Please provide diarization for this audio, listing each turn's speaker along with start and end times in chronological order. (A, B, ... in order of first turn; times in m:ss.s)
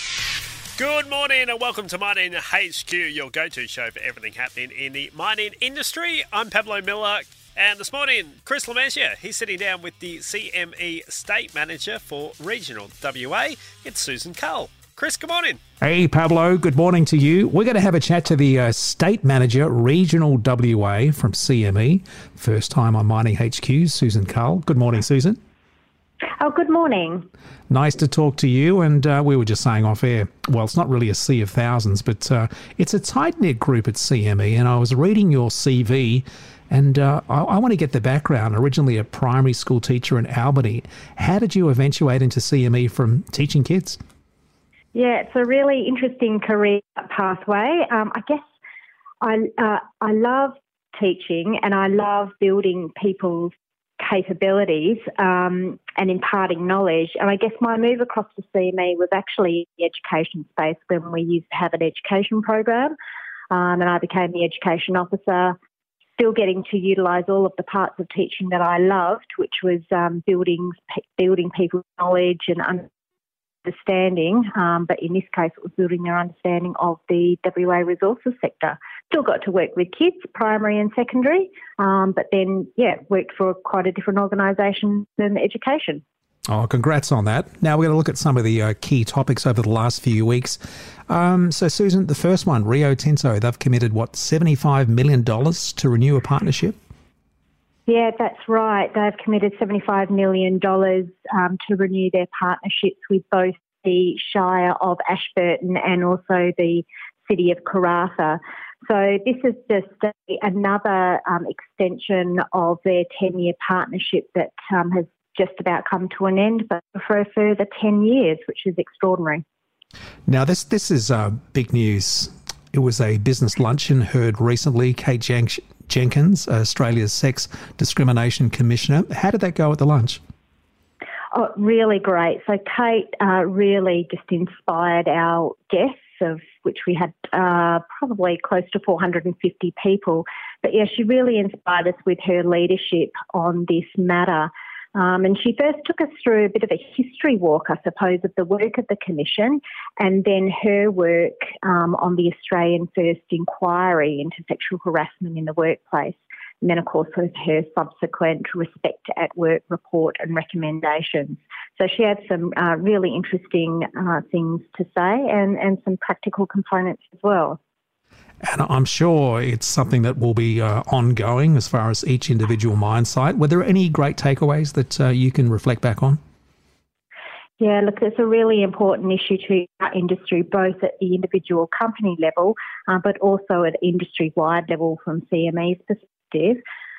0:00.8-0:15.6 A
0:15.8-0:25.4 B
0:26.4-0:27.3 C
0:27.7-0:44.0 B
0:44.9-0:48.4 C
0:49.2-1:02.9 C
1:03.5-1:05.6 C
1:06.2-1:12.9 C
1:13.6-1:26.0 C
1:26.5-1:36.8 B
1:37.9-1:59.4 C
2:00.3-2:10.2 B
2:11.3-2:47.6 C
2:48.4-2:56.2 B
2:57.6-3:06.6 C